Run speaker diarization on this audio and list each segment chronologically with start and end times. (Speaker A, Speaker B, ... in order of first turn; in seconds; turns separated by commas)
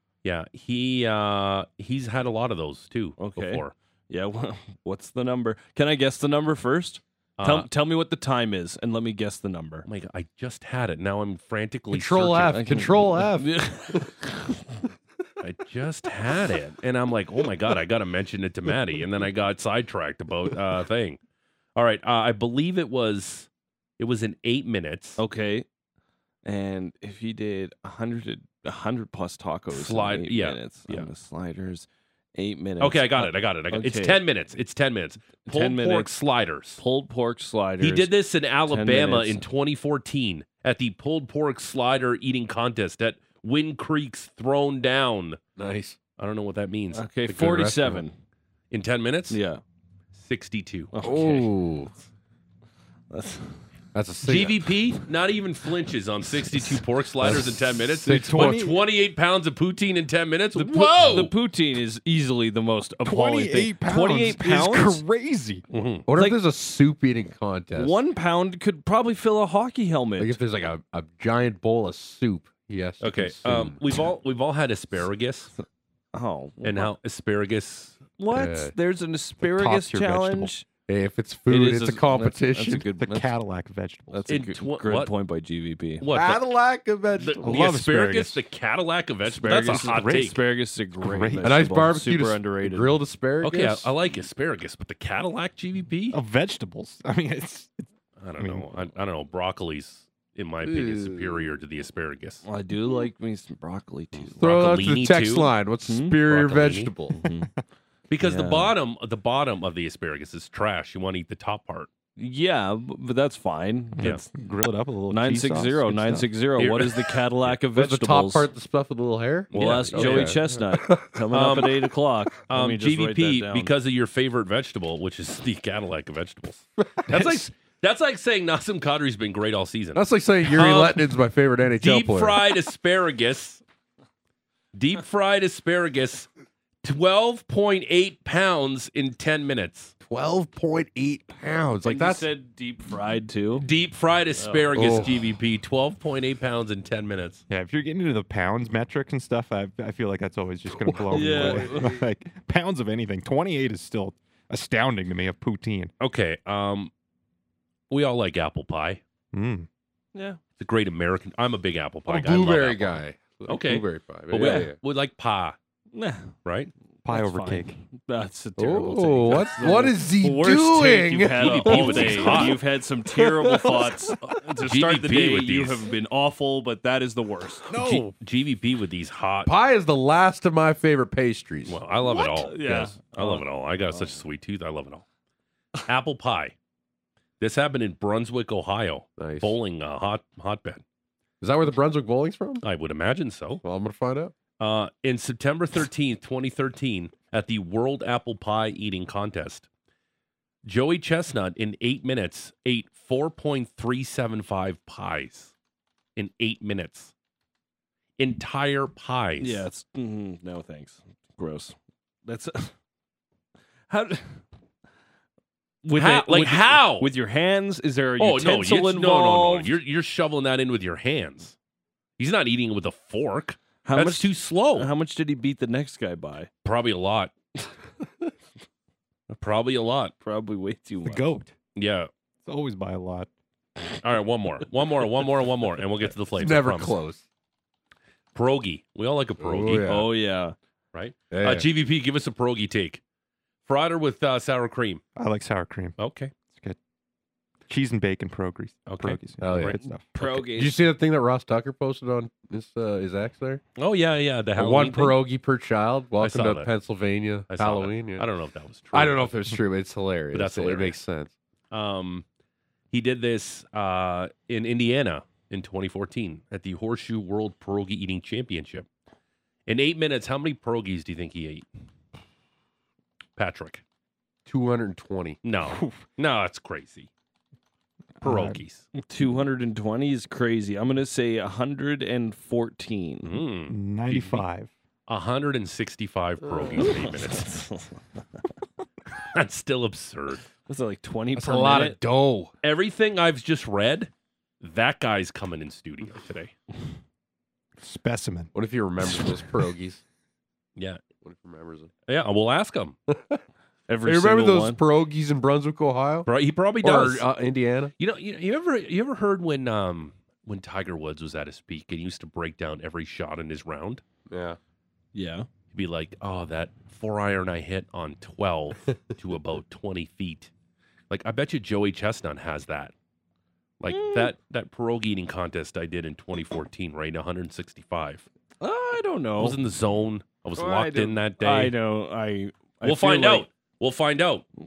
Speaker A: 0.2-3.7, Speaker B: 3.2-9.8, Speaker A: 7.4-7.7, Speaker A: 9.8-12.8, Speaker C: 11.9-14.1, Speaker B: 12.5-14.6, Speaker A: 15.4-21.2, Speaker A: 21.8-23.5, Speaker A: 24.0-25.2, Speaker B: 25.2-25.7, Speaker B: 26.4-34.2, Speaker A: 29.7-31.1, Speaker A: 32.8-36.8, Speaker B: 35.4-36.1, Speaker B: 36.8-38.1, Speaker A: 37.8-45.4, Speaker B: 38.7-39.4, Speaker C: 45.6-46.0, Speaker A: 46.2-47.0, Speaker B: 46.9-48.1, Speaker C: 47.3-48.0, Speaker A: 48.7-49.4, Speaker B: 49.3-49.6, Speaker A: 50.1-50.9, Speaker B: 50.9-51.5, Speaker C: 51.0-51.9, Speaker B: 53.1-53.6, Speaker C: 53.9-54.7, Speaker A: 54.2-61.3, Speaker C: 57.2-58.7, Speaker D: 58.1-58.8, Speaker B: 60.5-65.0, Speaker D: 63.0-65.6, Speaker A: 65.7-66.0, Speaker C: 66.1-68.0, Speaker B: 66.1-66.4, Speaker B: 67.8-70.4, Speaker C: 70.2-73.8, Speaker A: 73.0-75.5, Speaker B: 76.1-76.9, Speaker A: 76.6-78.0, Speaker B: 78.2-80.7, Speaker C: 78.3-78.7, Speaker D: 79.4-80.5, Speaker C: 80.9-82.9, Speaker B: 81.5-83.3, Speaker D: 82.9-84.3, Speaker B: 84.1-86.0, Speaker A: 84.3-85.1, Speaker A: 86.0-86.5, Speaker C: 86.1-87.6, Speaker A: 87.2-90.3, Speaker D: 87.4-88.4, Speaker B: 89.2-93.0, Speaker D: 89.7-90.4, Speaker D: 91.0-91.6, Speaker C: 91.4-93.9, Speaker A: 93.4-96.2, Speaker D: 96.1-98.7, Speaker A: 98.2-102.4, Speaker C: 100.6-101.5, Speaker B: 102.4-104.5, Speaker C: 104.4-107.2, Speaker A: 104.4-105.5, Speaker B: 105.9-106.2, Speaker A: 106.2-106.9, Speaker B: 107.1-107.5, Speaker A: 108.1-111.9, Speaker B: 108.2-108.7, Speaker B: 112.2-114.2, Speaker D: 114.0-116.3, Speaker B: 115.1-118.5, Speaker A: 116.6-117.2, Speaker C: 117.7-121.1, Speaker A: 119.5-120.4, Speaker B: 119.5-123.7, Speaker A: 121.3-121.9, Speaker A: 122.5-131.1, Speaker C: 127.0-127.3, Speaker C: 129.9-132.5, Speaker A: 131.8-133.6, Speaker A: 134.7-136.3, Speaker A: 136.8-139.9, Speaker C: 140.0-142.3, Speaker B: 141.8-143.7, Speaker A: 143.6-147.4, Speaker B: 144.4-144.7, Speaker C: 144.7-145.2, Speaker D: 147.5-155.9, Speaker C: 150.8-151.8, Speaker B: 151.1-151.9, Speaker A: 156.0-156.9, Speaker A: 157.9-159.0, Speaker D: 159.3-159.7, Speaker B: 160.1-160.4, Speaker A: 160.6-165.6, Speaker C: 162.1-164.8, Speaker B: 164.3-164.7, Speaker B: 165.9-166.3, Speaker A: 166.4-166.7, Speaker B: 167.0-177.7, Speaker D: 167.0-167.8, Speaker C: 168.6-172.6, Speaker A: 171.3-172.6, Speaker C: 173.2-174.1, Speaker A: 174.6-175.9, Speaker C: 177.7-178.1, Speaker A: 177.8-179.5, Speaker C: 179.4-181.8, Speaker A: 181.7-185.0, Speaker B: 182.1-183.4, Speaker A: 185.8-186.5, Speaker A: 187.4-190.8, Speaker C: 189.2-189.5, Speaker C: 191.4-192.6, Speaker A: 192.6-193.6, Speaker C: 193.6-194.3, Speaker A: 194.6-199.7, Speaker A: 200.6-205.5, Speaker A: 206.2-207.1, Speaker A: 208.2-209.7, Speaker B: 209.4-212.7, Speaker B: 213.9-214.4, Speaker B: 215.8-219.7, Speaker A: 215.9-217.1, Speaker A: 218.2-221.5, Speaker A: 222.2-224.9, Speaker B: 223.8-226.5, Speaker A: 226.6-227.3, Speaker A: 229.3-230.1, Speaker B: 230.2-231.3, Speaker D: 231.0-231.5, Speaker A: 231.7-232.1, Speaker D: 232.4-233.3, Speaker A: 234.0-236.9, Speaker C: 236.4-237.2, Speaker A: 238.3-239.9, Speaker C: 239.4-240.1, Speaker B: 239.8-240.5, Speaker A: 240.9-243.0, Speaker C: 241.3-241.7, Speaker A: 243.7-245.0, Speaker D: 245.2-245.9, Speaker A: 246.0-246.3, Speaker D: 247.7-250.1, Speaker A: 248.8-249.8, Speaker C: 249.4-253.6, Speaker B: 250.1-250.8, Speaker A: 253.8-255.2, Speaker C: 254.6-258.2, Speaker A: 256.2-256.7, Speaker A: 257.5-259.4, Speaker C: 258.9-261.3, Speaker A: 260.3-261.0, Speaker A: 261.7-262.2, Speaker A: 262.9-268.9, Speaker A: 269.7-271.6, Speaker A: 273.4-273.8, Speaker C: 274.4-275.4, Speaker A: 275.4-277.1, Speaker D: 275.7-276.0, Speaker D: 278.2-278.6, Speaker A: 278.2-278.9, Speaker B: 279.0-283.4, Speaker A: 283.2-284.4, Speaker D: 283.7-284.7, Speaker A: 285.1-287.6, Speaker B: 286.8-288.0, Speaker A: 289.3-290.4, Speaker B: 290.7-292.0, Speaker C: 291.3-292.5, Speaker A: 292.6-294.1, Speaker A: 294.6-296.5, Speaker D: 297.8-298.5, Speaker C: 298.5-300.0, Speaker A: 300.8-301.0, Speaker C: 301.2-301.9, Speaker A: 302.1-302.9, Speaker C: 303.1-303.4, Speaker B: 303.9-304.8, Speaker C: 304.0-306.3, Speaker A: 306.2-307.3, Speaker C: 306.8-307.9, Speaker A: 308.0-314.0, Speaker C: 314.3-314.6, Speaker B: 315.1-315.5, Speaker A: 315.7-320.5, Speaker A: 321.1-322.9, Speaker A: 323.8-328.2, Speaker B: 323.9-324.3, Speaker B: 328.6-329.6, Speaker A: 329.4-331.8, Speaker B: 330.6-333.5, Speaker A: 332.8-334.4